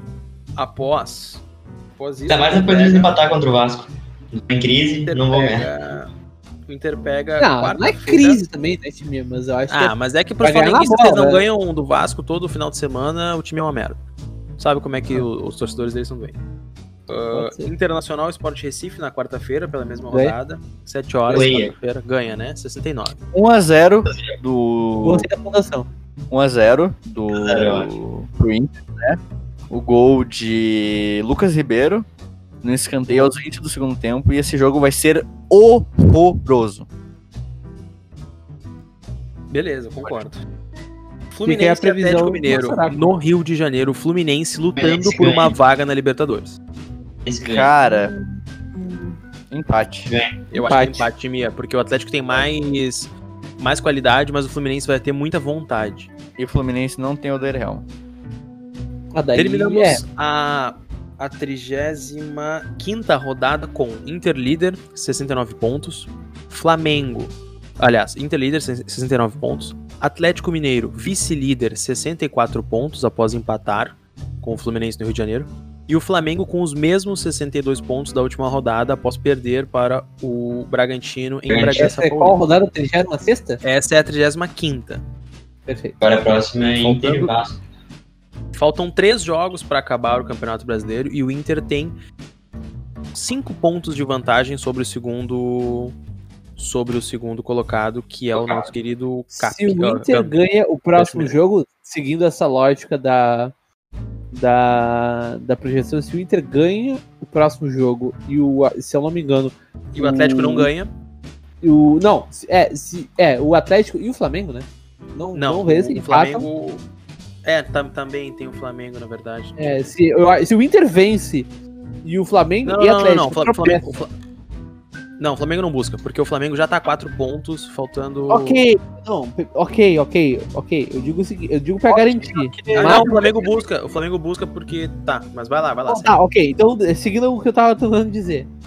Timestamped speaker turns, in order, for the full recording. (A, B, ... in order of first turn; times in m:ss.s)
0:00.6-0:01.4 A
0:02.0-0:03.1 A
0:02.3-0:05.7 B
0:05.0-0:06.1 A
0:06.7-0:08.4 A
0:07.4-0:11.4 C
0:09.7-0:14.0 A
0:14.6-0:16.4 A
0:17.1-0:23.2 A
0:17.3-0:17.7 C
0:20.1-0:20.4 C
0:21.3-0:21.7 B
0:23.3-0:25.3 D
0:24.1-0:24.4 B
0:25.0-0:25.9 C
0:26.3-0:29.2 D
0:27.3-0:27.9 B
0:29.7-0:32.1 D
0:32.6-0:36.9 D
0:39.5-0:40.4 A
0:40.0-0:40.3 D
0:41.3-0:46.6 A
0:41.4-0:43.1 C
0:44.8-0:45.5 B
0:47.2-0:47.7 B
0:47.4-0:48.1 D
0:47.8-0:49.2 C
0:49.5-0:50.1 D
0:50.1-0:50.3 B
0:50.5-0:56.1 A
0:50.6-0:51.1 C
0:56.4-0:57.8 D
0:59.1-1:00.0 C
0:59.4-1:22.4 A
1:21.5-1:21.9 B
1:21.8-1:23.6 C
1:23.6-1:25.0 A
1:25.7-1:26.0 C
1:26.0-1:27.6 B
1:26.8-1:27.3 A
1:28.5-1:32.0 A
1:33.1-1:36.0 A
1:36.6-1:40.4 A
1:38.3-1:38.7 B
1:39.4-1:43.5 C
1:41.0-1:41.3 A
1:44.3-1:50.7 C
1:49.9-1:50.9 A
1:51.6-1:56.5 C
1:55.3-1:56.8 A
1:57.4-1:59.8 A
1:59.6-2:01.5 C
2:02.0-2:04.0 C
2:02.6-2:04.1 A
2:05.2-2:08.6 A
2:08.3-2:13.1 C
2:11.9-2:13.6 D
2:12.7-2:16.2 A
2:15.9-2:18.5 C